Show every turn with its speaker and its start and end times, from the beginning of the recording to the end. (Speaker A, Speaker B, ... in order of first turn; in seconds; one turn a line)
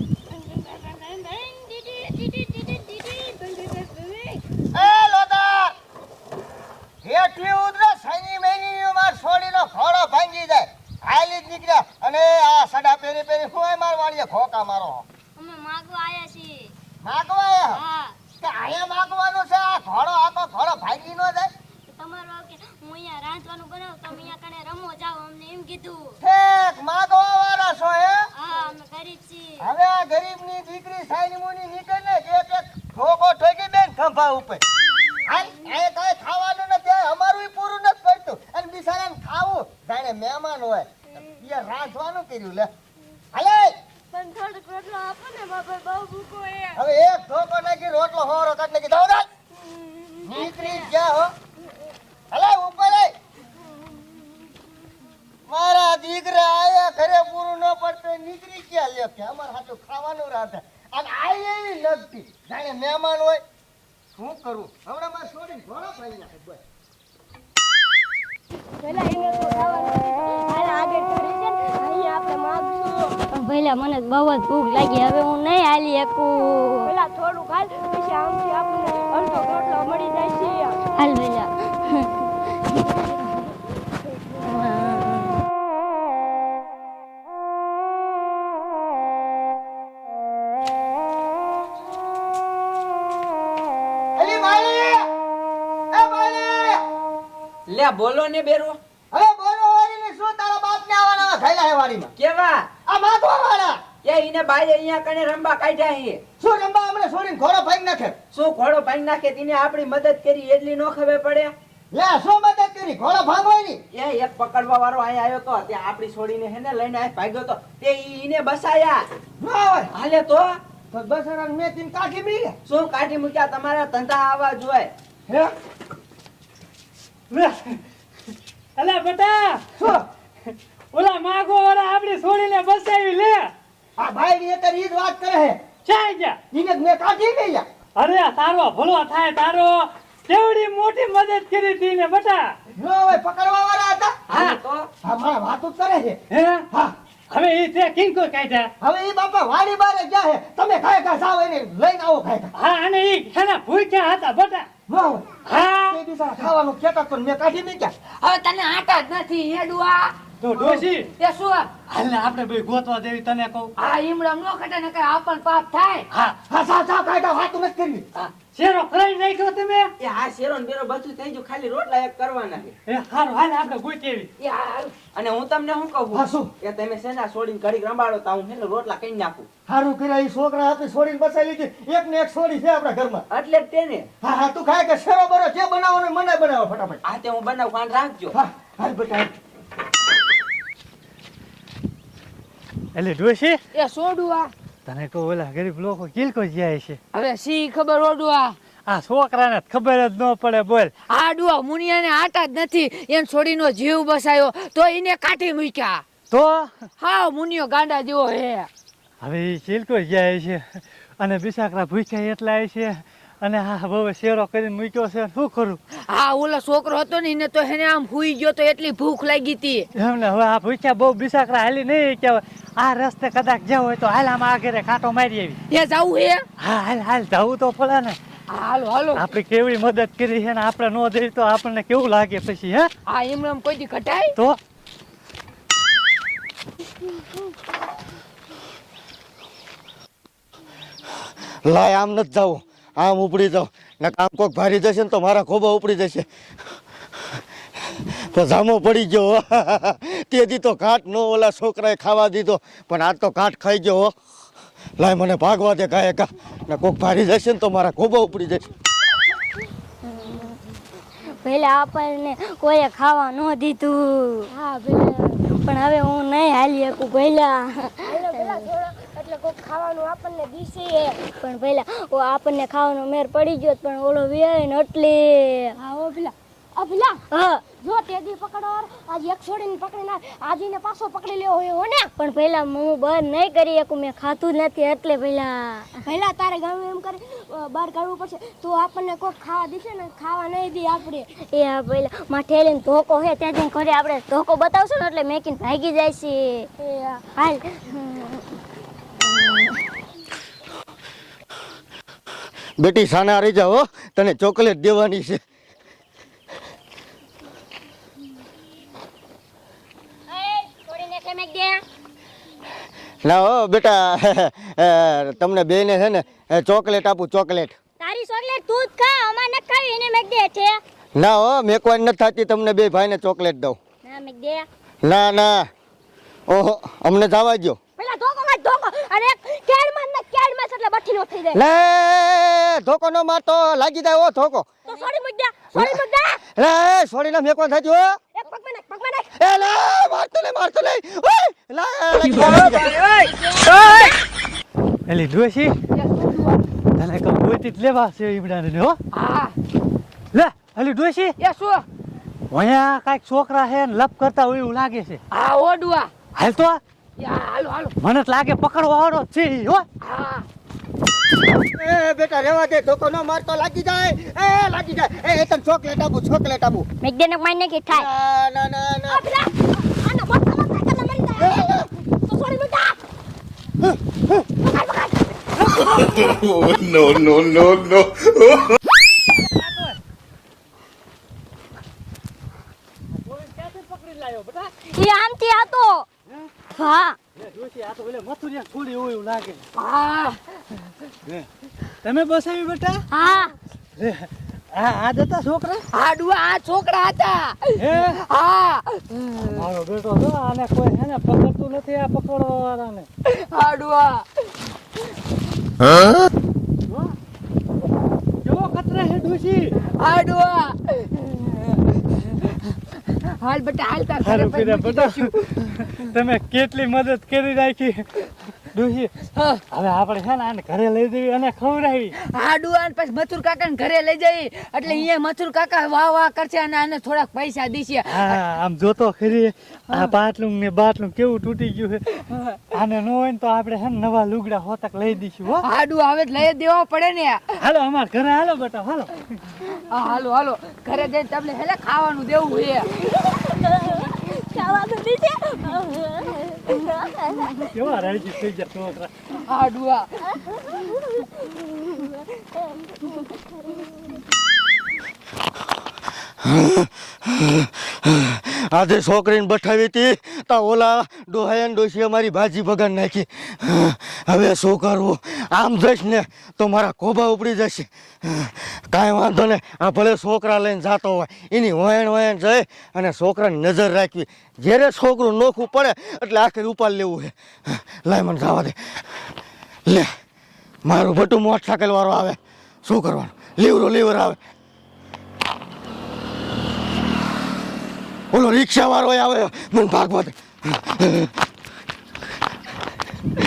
Speaker A: 0.8-3.7
Speaker B: 3.3-4.3
Speaker C: 4.7-5.7
Speaker C: 7.0-15.0
Speaker A: 15.4-16.7
Speaker C: 17.0-17.8
Speaker A: 17.7-18.1
Speaker C: 18.4-21.5
Speaker A: 21.9-26.1
Speaker C: 26.2-28.3
Speaker A: 28.4-29.6
Speaker C: 29.6-34.6
Speaker C: 35.2-42.7
Speaker C: 43.3-43.7
Speaker B: 44.1-46.8
Speaker C: 46.8-49.3
Speaker B: 49.6-50.9
Speaker C: 50.2-51.3
Speaker C: 52.3-53.1
Speaker C: 55.5-63.4
Speaker C: 64.2-66.6
Speaker B: 68.8-73.2
Speaker A: 73.3-76.9
Speaker B: 76.8-80.8
Speaker A: 80.9-82.1
Speaker A: 84.4-85.4
Speaker C: 94.2-95.1
Speaker C: 95.9-96.8
Speaker D: 97.7-98.8
Speaker C: 99.1-102.1
Speaker D: 102.2-102.7
Speaker C: 102.9-103.8
Speaker D: 104.0-106.2
Speaker C: 106.4-108.2
Speaker D: 108.3-111.5
Speaker C: 111.9-113.8
Speaker D: 113.9-119.0
Speaker C: 119.4-119.9
Speaker D: 119.9-120.5
Speaker C: 120.9-122.5
Speaker D: 122.6-124.9
Speaker E: 127.3-127.8
Speaker E: 128.8-129.9
Speaker C: 129.8-130.0
Speaker E: 130.9-133.5
Speaker C: 134.0-135.6
Speaker E: 135.8-136.4
Speaker C: 136.5-137.6
Speaker E: 138.0-142.5
Speaker C: 142.7-144.2
Speaker D: 144.3-144.9
Speaker C: 145.0-146.9
Speaker E: 146.3-146.6
Speaker E: 147.3-148.7
Speaker C: 148.8-152.5
Speaker E: 152.6-154.7
Speaker C: 154.9-157.9
Speaker E: 155.4-156.0
Speaker F: 158.2-160.1
Speaker E: 160.4-161.1
Speaker C: 160.5-160.8
Speaker F: 161.2-161.7
Speaker E: 161.9-163.7
Speaker F: 163.8-166.1
Speaker E: 166.1-166.3
Speaker C: 166.5-168.1
Speaker E: 168.2-169.9
Speaker D: 170.0-172.8
Speaker E: 172.9-174.3
Speaker F: 174.4-174.9
Speaker D: 175.1-179.5
Speaker C: 176.1-176.5
Speaker C: 179.7-183.2
Speaker D: 183.3-184.1
Speaker C: 184.2-187.0
Speaker D: 187.0-188.4
Speaker C: 188.3-189.3
Speaker E: 192.9-193.6
Speaker F: 193.7-194.5
Speaker E: 194.8-197.0
Speaker F: 197.1-198.5
Speaker E: 198.9-200.9
Speaker F: 201.1-206.0
Speaker E: 206.3-206.7
Speaker F: 207.0-208.7
Speaker E: 209.2-215.8
Speaker F: 216.1-219.8
Speaker E: 219.9-225.6
Speaker F: 225.7-226.4
Speaker E: 226.6-228.2
Speaker F: 228.5-229.2
Speaker E: 229.1-232.9
Speaker F: 233.1-234.3
Speaker C: 241.7-246.3
Speaker C: 247.9-254.1
Speaker C: 255.0-258.6
Speaker A: 260.1-260.6
Speaker A: 261.4-264.5
Speaker B: 264.5-265.4
Speaker A: 265.6-268.6
Speaker B: 268.0-271.3
Speaker A: 271.4-275.8
Speaker B: 275.8-277.2
Speaker A: 277.3-277.6
Speaker B: 277.8-282.1
Speaker A: 282.2-285.9
Speaker B: 286.1-291.3
Speaker A: 291.5-296.7
Speaker B: 296.8-297.2
Speaker A: 297.4-298.4
Speaker C: 302.8-305.4
Speaker A: 310.3-311.8
Speaker C: 313.2-317.7
Speaker A: 318.0-320.8
Speaker C: 321.1-323.8
Speaker A: 324.0-324.6
Speaker C: 325.0-325.7
Speaker C: 326.5-327.8
Speaker B: 328.0-331.6
Speaker C: 331.5-334.6
Speaker B: 334.9-336.4
Speaker C: 336.6-338.2
Speaker B: 338.3-339.3
Speaker C: 339.4-342.9
Speaker D: 342.2-344.0
Speaker B: 343.9-344.1
Speaker E: 345.1-345.7
Speaker F: 345.9-346.6
Speaker E: 347.0-349.0
Speaker F: 349.1-349.5
Speaker E: 350.3-351.3
Speaker F: 351.4-351.8
Speaker E: 352.5-355.2
Speaker F: 355.3-356.1
Speaker E: 356.4-356.8
Speaker F: 357.2-357.9
Speaker E: 358.0-359.8
Speaker F: 360.0-360.4
Speaker C: 361.7-366.9
Speaker A: 367.0-368.1
Speaker C: 367.9-369.2
Speaker B: 369.1-373.0
Speaker C: 371.4-371.9
Speaker B: 374.6-376.4
Speaker G: 376.4-378.5
Speaker E: 379.4-379.9
Speaker E: 383.1-384.7
Speaker A: 384.9-386.1
Speaker A: 386.7-387.2
Speaker E: 387.4-389.6
Speaker F: 389.8-390.4
Speaker E: 392.0-393.0
Speaker A: 393.1-393.5
Speaker E: 394.0-395.8
Speaker F: 395.9-397.7
Speaker E: 397.8-398.2
Speaker F: 398.3-399.3
Speaker E: 399.4-403.1
Speaker F: 403.3-404.2
Speaker E: 408.4-409.7
Speaker F: 409.9-411.3
Speaker F: 413.2-414.9
Speaker E: 414.2-422.1
Speaker F: 422.3-428.1
Speaker E: 428.1-432.2
Speaker E: 432.7-435.7
Speaker F: 435.7-437.4
Speaker E: 437.6-439.4
Speaker F: 439.9-442.9
Speaker B: 443.0-446.9
Speaker E: 447.7-449.1
Speaker F: 449.5-450.1
Speaker B: 450.7-451.7
Speaker C: 456.4-479.0
Speaker C: 480.8-484.4
Speaker C: 488.3-491.3